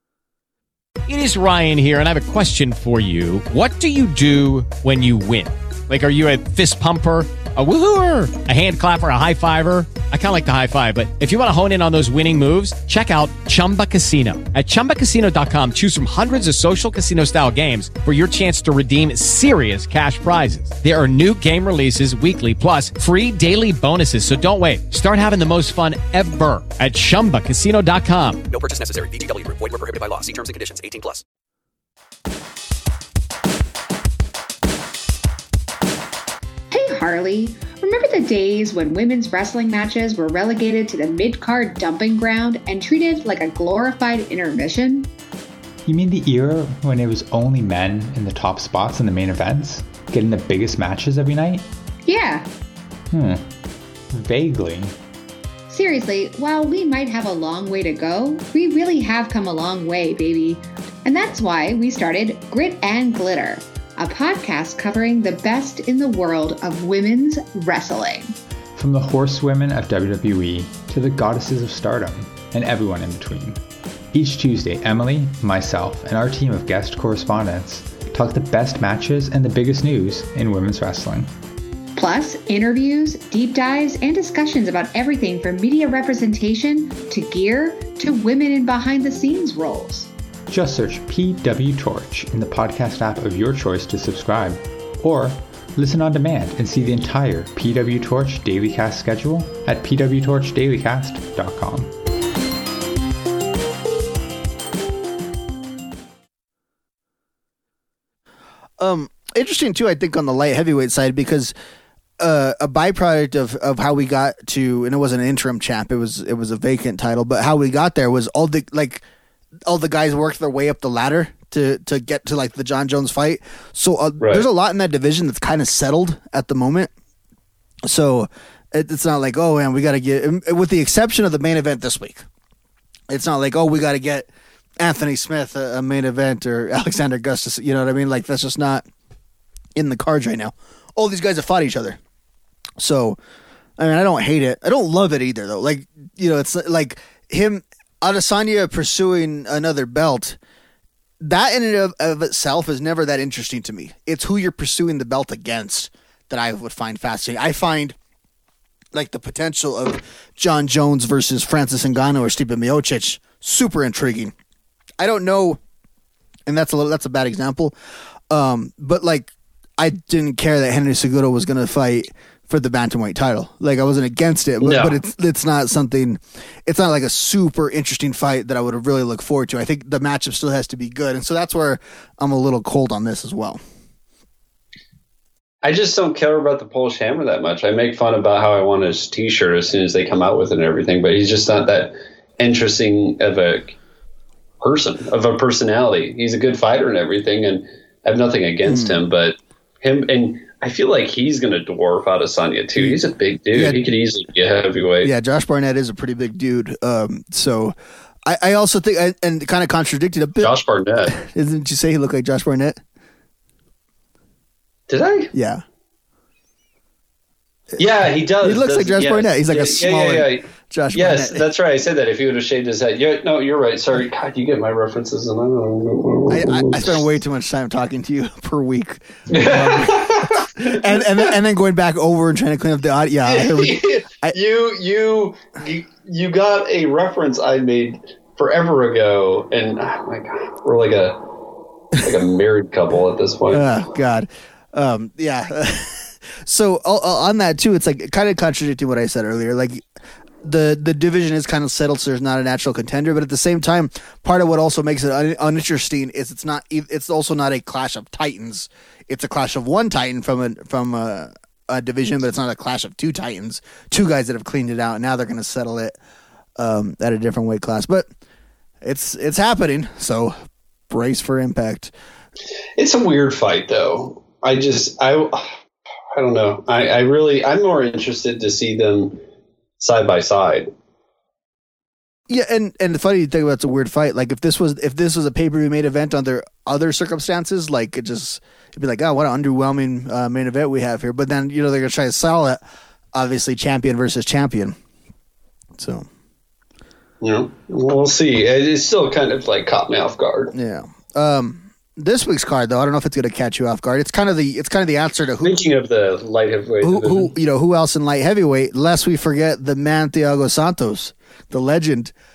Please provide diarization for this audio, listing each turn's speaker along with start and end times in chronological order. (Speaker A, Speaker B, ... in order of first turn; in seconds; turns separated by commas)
Speaker A: 1.1-28.4, Speaker B: 28.5-31.2, Speaker C: 36.7-45.1, Speaker D: 45.9-51.6, Speaker C: 52.0-52.5, Speaker D: 53.1-53.5, Speaker D: 54.1-54.9, Speaker C: 55.7-68.3, Speaker D: 68.8-73.6, Speaker D: 74.1-81.3, Speaker C: 82.0-90.1, Speaker D: 90.5-101.9, Speaker E: 108.8-111.5, Speaker E: 112.2-119.0, Speaker E: 119.7-126.9, Speaker E: 127.9-132.2, Speaker E: 133.1-138.8, Speaker E: 139.8-142.0, Speaker E: 142.8-143.2, Speaker E: 143.8-150.4, Speaker E: 151.2-157.9, Speaker E: 158.9-164.3, Speaker E: 165.0-165.6, Speaker E: 166.5-167.7, Speaker E: 168.3-183.6, Speaker F: 174.6-175.0, Speaker F: 185.6-193.7, Speaker F: 194.6-205.1, Speaker E: 198.6-199.0, Speaker E: 203.5-203.8, Speaker E: 205.0-207.7, Speaker E: 208.2-210.5, Speaker F: 210.4-211.2, Speaker E: 211.1-212.8, Speaker F: 214.9-215.3, Speaker E: 215.3-215.6, Speaker F: 217.8-227.1, Speaker E: 218.4-221.4, Speaker E: 226.3-234.3, Speaker F: 229.3-231.3, Speaker F: 233.2-241.2, Speaker F: 242.0-243.7, Speaker E: 243.5-249.8, Speaker E: 250.4-266.0, Speaker E: 266.6-268.1, Speaker E: 268.8-270.4, Speaker E: 270.9-271.9, Speaker F: 272.8-275.5, Speaker F: 276.1-279.2, Speaker F: 279.8-280.7, Speaker E: 282.3-292.6, Speaker E: 293.1-294.8, Speaker E: 295.8-296.1, Speaker F: 297.2-300.5, Speaker E: 300.5-305.5, Speaker F: 305.4-307.3, Speaker E: 306.8-312.1